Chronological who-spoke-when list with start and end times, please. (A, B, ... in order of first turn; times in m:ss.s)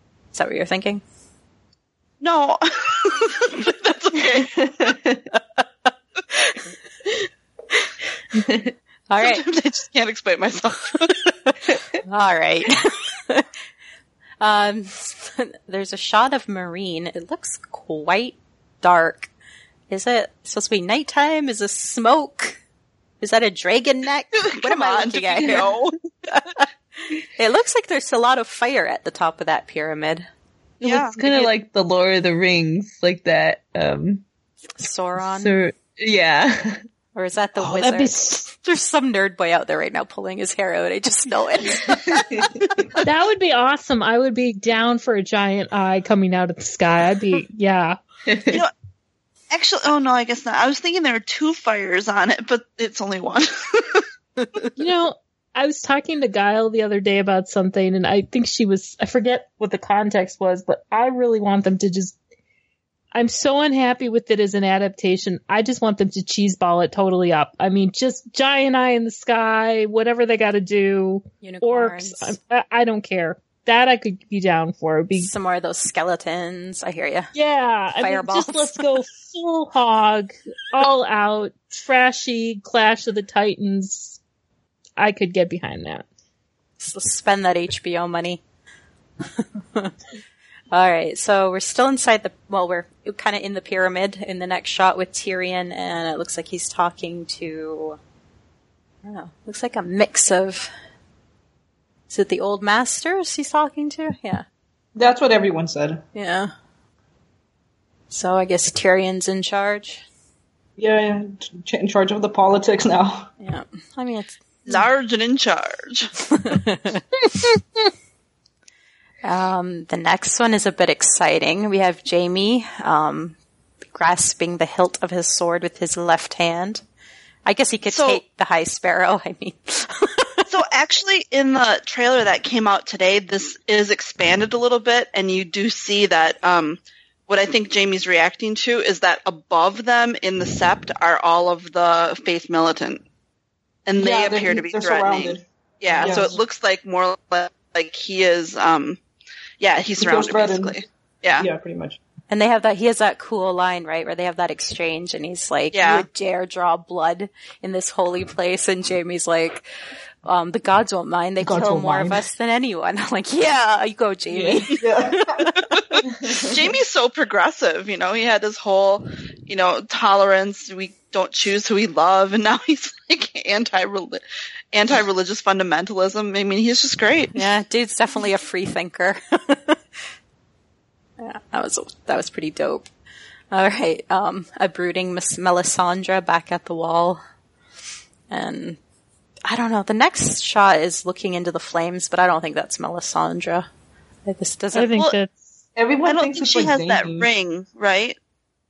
0:00.3-0:01.0 A
0:02.2-0:04.9 B
0:04.7-0:05.2 C
0:08.3-0:08.7 C
0:09.1-0:09.4 A
0:09.2-0:11.1 B
0:11.2-0:13.5 A
0:14.4-0:19.3 A
0:19.9-0:22.6 A
0:23.2-0:25.7 A
0:24.3-0:25.9 B
0:26.3-0:26.6 A
0:27.2-0:30.2 A
0:30.8-0:31.5 B
0:30.8-0:34.2 C
0:34.8-0:35.5 A
0:35.2-0:36.8 C
0:37.1-0:42.7 A
0:37.6-0:38.5 D
0:41.9-0:42.5 C
0:43.0-0:48.0 D
0:48.3-0:48.6 C
0:49.5-0:54.0 B
0:54.8-1:02.2 D
1:03.1-1:15.3 D
1:11.4-1:12.4 A
1:15.2-1:17.3 A
1:17.3-1:24.2 D
1:18.0-1:19.0 A
1:25.0-1:26.0 D
1:26.8-1:28.4 A
1:29.4-1:29.9 A
1:30.7-1:38.0 A
1:39.0-1:40.7 A
1:42.1-1:44.4 A
1:44.9-1:46.0 E
1:46.1-1:46.5 A
1:48.1-1:50.0 A
1:50.8-1:53.3 E
1:53.4-1:54.4 A
1:54.6-1:56.1 B
1:56.3-1:57.0 A
1:57.3-1:57.6 D
1:59.2-2:03.4 A
2:03.9-2:06.8 A
2:07.4-2:10.5 A
2:07.8-2:08.2 B
2:10.5-2:23.0 B
2:23.8-2:29.0 B
2:24.0-2:25.4 E
2:26.0-2:26.3 E
2:29.6-2:31.5 B
2:30.0-2:30.7 E
2:31.4-2:32.0 E
2:32.3-2:39.6 A
2:35.7-2:36.0 B
2:40.2-2:44.9 A
2:41.4-2:42.2 E
2:44.3-2:44.6 C
2:44.8-2:45.6 E
2:45.5-2:57.4 B
2:46.2-2:46.5 C
2:57.3-3:00.0 A
3:01.2-3:02.9 A
3:03.5-3:07.2 A
3:08.3-3:08.8 A
3:09.5-3:13.7 A
3:14.2-3:15.0 A
3:14.7-3:15.6 D
3:15.8-3:17.3 E
3:16.0-3:18.2 B